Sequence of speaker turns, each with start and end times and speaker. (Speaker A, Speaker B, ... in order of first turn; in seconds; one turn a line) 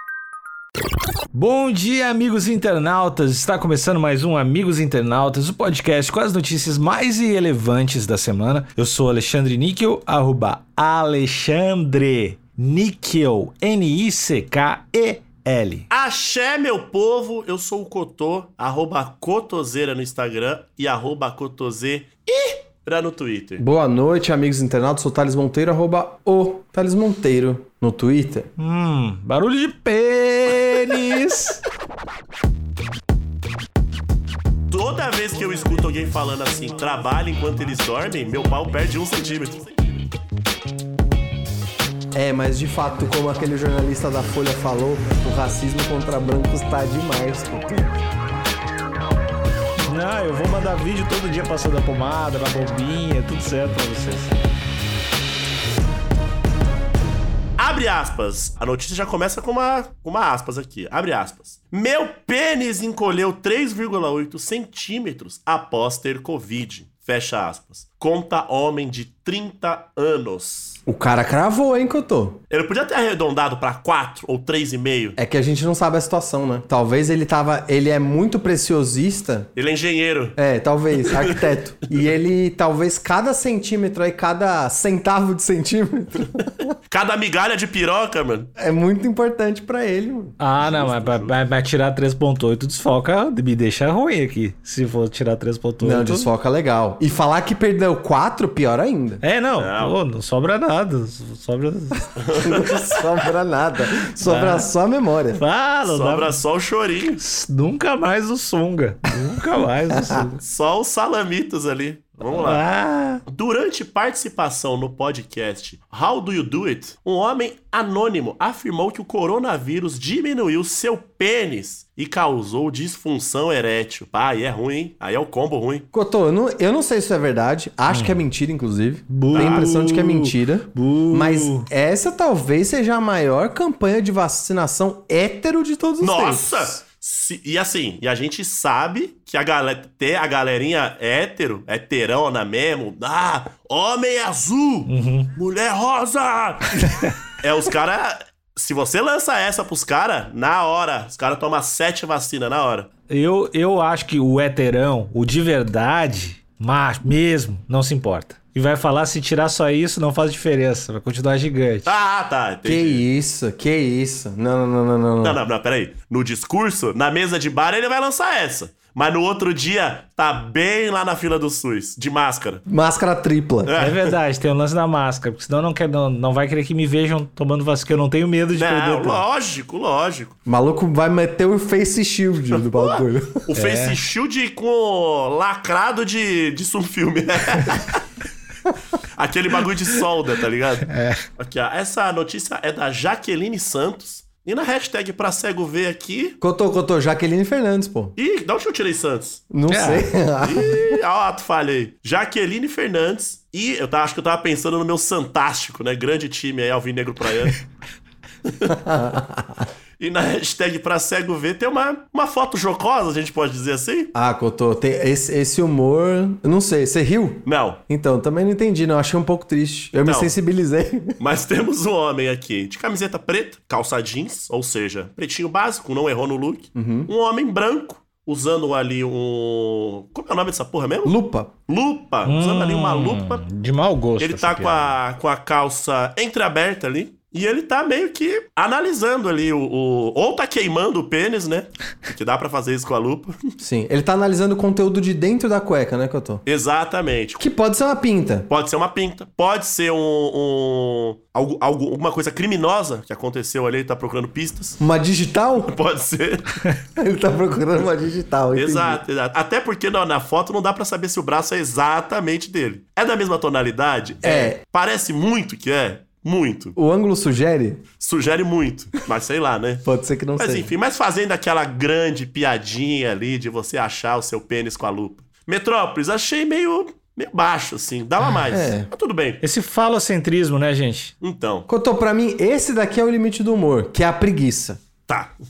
Speaker A: 1.3-15.8
Speaker B: 15.9-23.6
Speaker C: 23.6-28.5
Speaker A: 28.6-31.6
Speaker B: 34.7-40.1
Speaker C: 42.1-48.0
Speaker A: 49.9-54.4
Speaker B: 57.6-70.8
Speaker C: 70.9-72.4
Speaker B: 72.5-75.2
Speaker C: 75.2-79.5
Speaker B: 79.5-80.4
Speaker C: 80.4-86.7
Speaker B: 81.1-81.5
Speaker B: 86.9-88.5
Speaker C: 88.6-90.4
Speaker A: 90.4-96.3
Speaker B: 90.6-91.4
Speaker C: 95.8-99.2
Speaker A: 99.2-102.0
Speaker B: 99.6-100.0
Speaker B: 102.2-102.8
Speaker C: 102.4-105.4
Speaker A: 104.2-104.7
Speaker A: 105.3-106.4
Speaker B: 105.9-107.2
Speaker A: 107.2-110.4
Speaker C: 109.9-110.2
Speaker B: 110.4-112.6
Speaker A: 112.3-113.2
Speaker B: 113.3-125.9
Speaker C: 125.9-136.8
Speaker A: 127.9-128.2
Speaker A: 129.1-131.7
Speaker B: 129.3-129.7
Speaker B: 136.0-152.9
Speaker A: 144.9-145.3
Speaker A: 153.1-161.9
Speaker B: 161.8-163.0
Speaker C: 162.6-165.4
Speaker B: 165.2-172.6
Speaker C: 172.7-173.7
Speaker B: 173.7-174.1
Speaker A: 173.8-179.2
Speaker B: 178.5-180.4
Speaker C: 180.5-183.5
Speaker B: 182.6-188.0
Speaker A: 183.6-184.0
Speaker B: 189.2-190.9
Speaker A: 190.9-191.2
Speaker B: 191.4-196.4
Speaker C: 196.4-198.2
Speaker B: 198.2-199.4
Speaker C: 199.5-200.9
Speaker A: 199.7-200.1
Speaker B: 200.4-207.6
Speaker B: 208.5-208.8
Speaker C: 208.7-209.7
Speaker B: 210.0-214.1
Speaker C: 214.1-221.2
Speaker B: 217.4-217.8
Speaker B: 220.1-220.3
Speaker B: 221.2-231.2
Speaker C: 226.8-227.1
Speaker C: 231.1-231.5
Speaker B: 231.7-233.5
Speaker A: 232.2-235.0
Speaker B: 234.2-243.5
Speaker C: 243.6-246.4
Speaker B: 246.4-247.4
Speaker C: 247.4-248.5
Speaker B: 248.5-254.8
Speaker C: 254.8-255.7
Speaker B: 255.6-256.6
Speaker C: 256.9-259.0
Speaker B: 258.5-266.8
Speaker C: 264.2-264.6
Speaker C: 266.8-267.8
Speaker B: 268.0-269.9
Speaker C: 269.9-270.7
Speaker B: 270.4-279.4
Speaker C: 278.5-278.9
Speaker A: 279.4-281.1
Speaker B: 281.2-281.7
Speaker C: 281.7-284.8
Speaker B: 285.1-285.3